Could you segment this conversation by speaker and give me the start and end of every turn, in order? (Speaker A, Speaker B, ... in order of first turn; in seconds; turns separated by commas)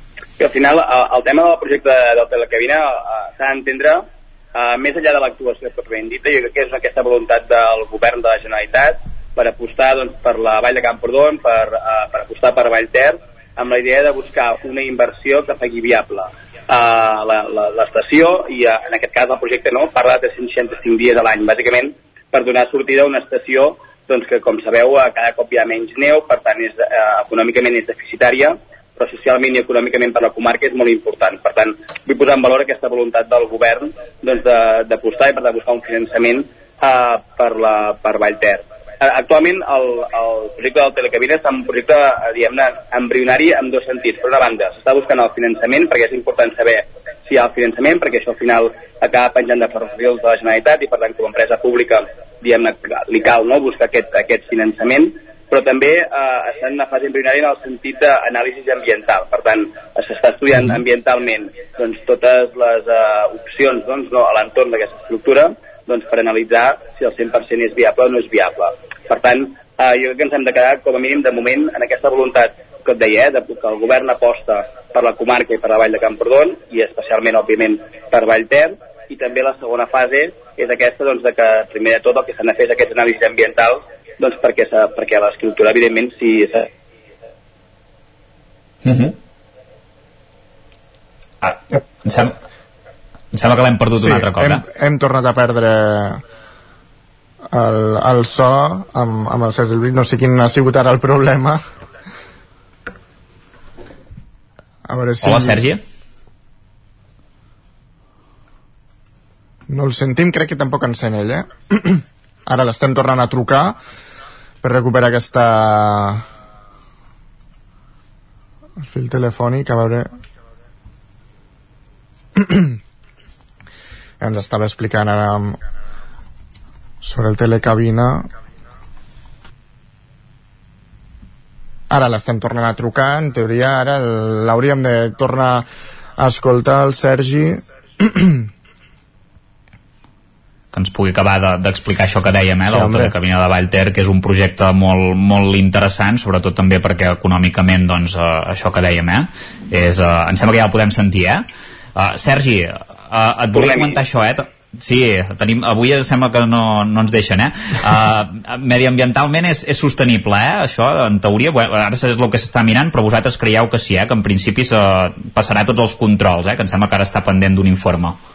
Speaker A: 0.4-86.7, Speaker B: 88.8-89.1, Speaker B: 91.4-92.3, Speaker B: 93.3-94.6, Speaker C: 94.0-96.2, Speaker C: 97.5-101.6, Speaker C: 104.9-105.6, Speaker B: 105.2-105.8, Speaker C: 109.7-113.8, Speaker C: 114.6-116.2, Speaker C: 118.8-120.1, Speaker C: 122.4-122.8, Speaker C: 124.2-125.6, Speaker C: 127.0-128.3, Speaker C: 131.9-135.7, Speaker C: 136.2-138.5, Speaker B: 140.7-168.2, Speaker C: 142.7-143.1, Speaker A: 153.5-154.0